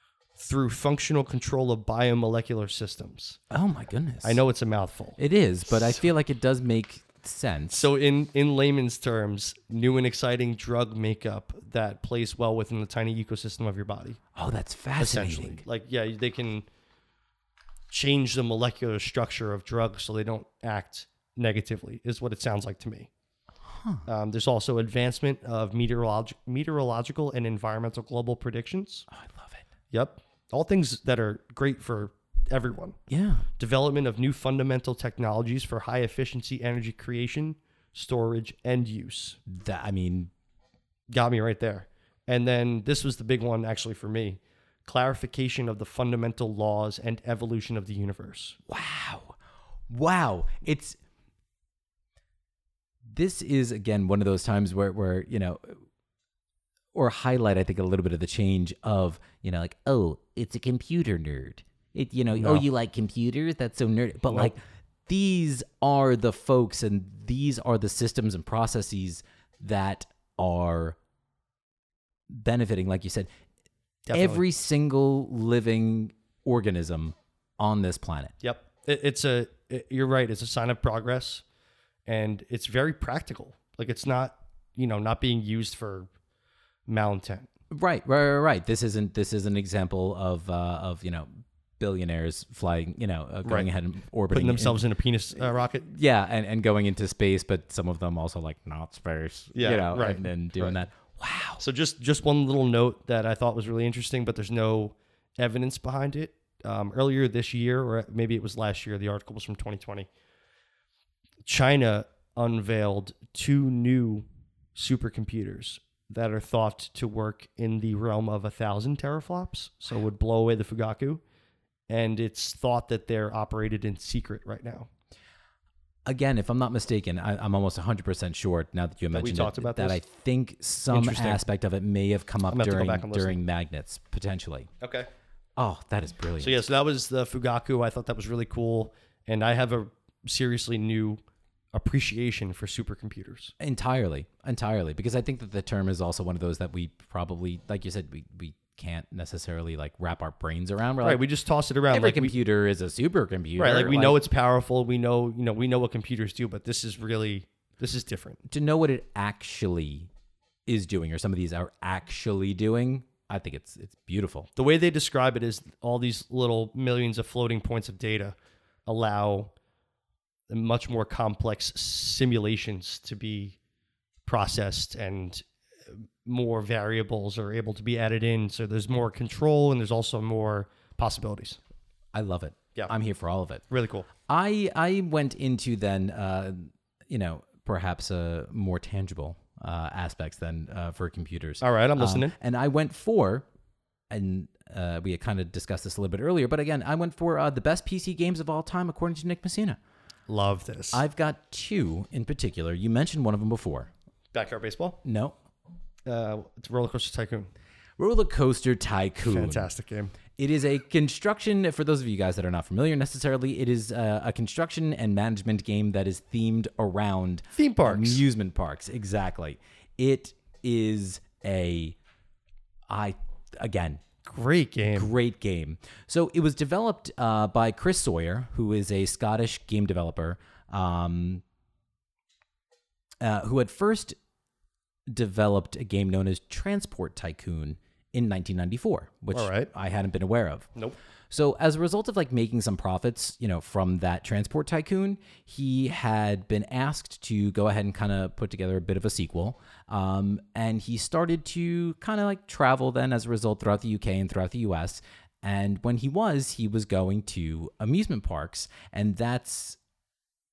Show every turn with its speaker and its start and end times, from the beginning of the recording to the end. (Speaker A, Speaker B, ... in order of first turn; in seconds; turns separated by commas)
Speaker A: 0.3-3.4, Speaker B: 3.5-4.4, Speaker A: 4.2-5.2, Speaker B: 5.2-7.9, Speaker A: 5.7-6.0, Speaker A: 7.7-14.2, Speaker B: 14.3-15.6, Speaker A: 15.0-16.7, Speaker A: 17.9-23.1, Speaker B: 23.6-24.0, Speaker A: 24.1-29.1, Speaker B: 29.1-29.6, Speaker A: 29.9-33.0, Speaker B: 33.1-33.4, Speaker A: 33.6-39.4, Speaker B: 39.5-40.3, Speaker A: 41.1-48.6, Speaker B: 48.7-49.4, Speaker B: 49.9-51.0, Speaker B: 53.1-55.8, Speaker B: 56.9-71.0, Speaker A: 62.3-62.6, Speaker A: 64.3-64.5, Speaker B: 72.3-73.3, Speaker A: 74.1-74.4, Speaker B: 74.1-78.3, Speaker A: 78.4-81.4, Speaker A: 82.0-86.1, Speaker A: 86.9-87.5, Speaker B: 87.7-94.8, Speaker A: 94.3-95.9, Speaker B: 95.8-101.6, Speaker A: 99.5-100.8, Speaker A: 101.6-110.1, Speaker A: 111.5-121.2, Speaker A: 121.9-124.9, Speaker B: 126.0-134.7, Speaker A: 129.1-130.0, Speaker A: 130.9-131.4, Speaker A: 132.5-133.4, Speaker A: 134.8-135.1, Speaker B: 135.6-136.6, Speaker A: 136.4-141.2, Speaker A: 141.7-143.5, Speaker B: 143.6-151.2, Speaker A: 151.0-152.3, Speaker B: 151.9-154.2, Speaker A: 153.6-158.4, Speaker B: 158.5-160.1, Speaker B: 160.7-164.5, Speaker A: 164.6-169.5, Speaker A: 170.5-173.6, Speaker A: 174.2-181.6, Speaker B: 182.1-183.6, Speaker A: 183.7-184.1, Speaker B: 184.2-193.4, Speaker A: 191.6-192.3, Speaker B: 194.1-199.8, Speaker A: 200.3-201.0, Speaker B: 200.9-203.9, Speaker A: 204.3-205.0, Speaker B: 205.0-205.3, Speaker A: 206.1-207.5, Speaker B: 208.0-209.7, Speaker A: 209.2-210.1, Speaker B: 210.4-222.0, Speaker A: 217.6-218.2, Speaker B: 222.9-224.0, Speaker A: 224.2-225.1, Speaker B: 224.9-231.4, Speaker B: 233.2-234.2, Speaker B: 235.1-240.7, Speaker A: 239.3-239.7, Speaker B: 241.3-259.8